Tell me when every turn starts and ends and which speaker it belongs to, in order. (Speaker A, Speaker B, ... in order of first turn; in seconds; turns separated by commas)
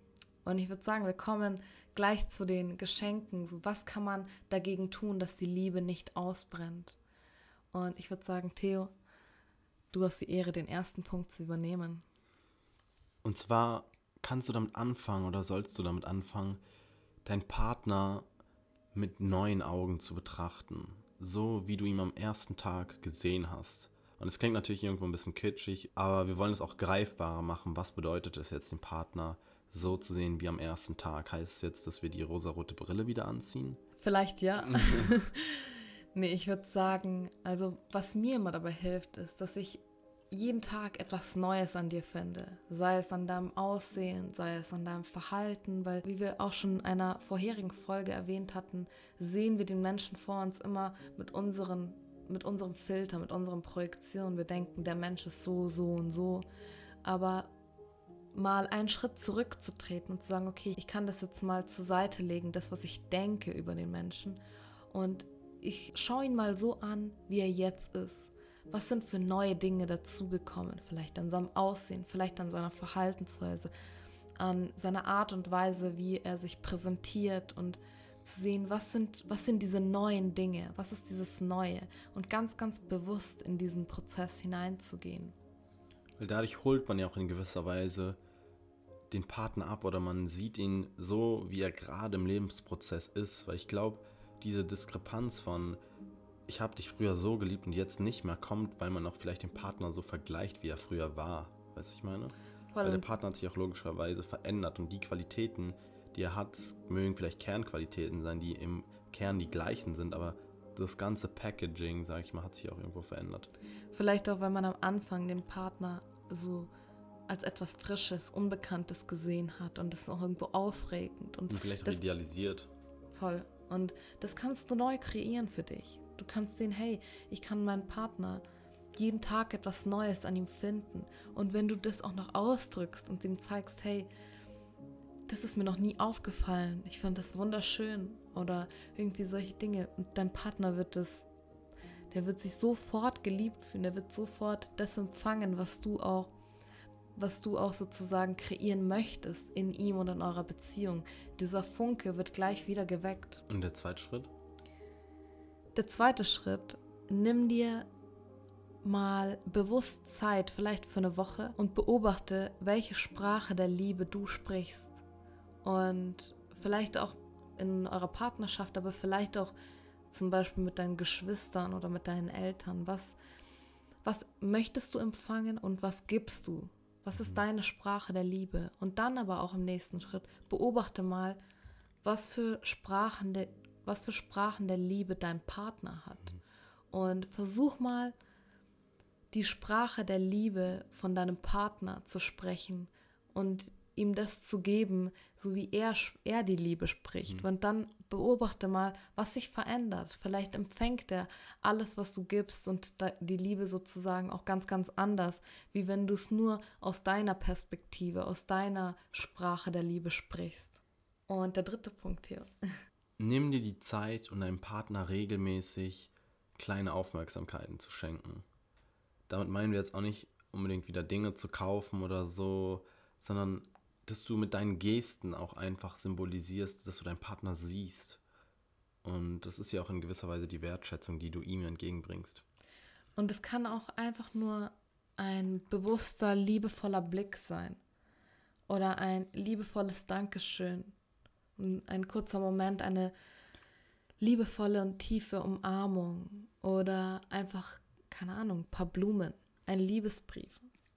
Speaker A: 0.4-7.0, Speaker A: 7.7-8.9, Speaker A: 9.9-12.0, Speaker B: 13.2-16.6, Speaker B: 17.2-18.2, Speaker B: 18.9-33.8, Speaker A: 34.0-56.5, Speaker B: 34.6-35.1, Speaker A: 57.0-57.5, Speaker A: 58.3-64.4, Speaker A: 64.9-73.7, Speaker A: 74.4-85.3, Speaker B: 86.2-88.2, Speaker B: 89.1-95.8, Speaker B: 96.5-113.5, Speaker A: 102.7-103.0, Speaker A: 113.9-116.7, Speaker A: 117.3-122.0, Speaker B: 121.5-122.7, Speaker A: 123.1-128.4, Speaker A: 129.0-134.1, Speaker A: 135.3-141.3, Speaker A: 142.1-146.3, Speaker A: 147.2-153.4, Speaker B: 153.5-154.3, Speaker A: 155.7-157.9, Speaker A: 158.8-165.0, Speaker A: 165.6-169.5, Speaker A: 170.1-173.2, Speaker A: 174.0-181.4, Speaker A: 182.0-186.4, Speaker A: 186.9-188.2, Speaker A: 189.3-212.5, Speaker B: 213.2-218.4, Speaker B: 219.3-228.2, Speaker B: 229.0-232.4, Speaker A: 233.2-237.8, Speaker A: 238.7-240.9, Speaker A: 241.6-243.1, Speaker A: 244.2-250.7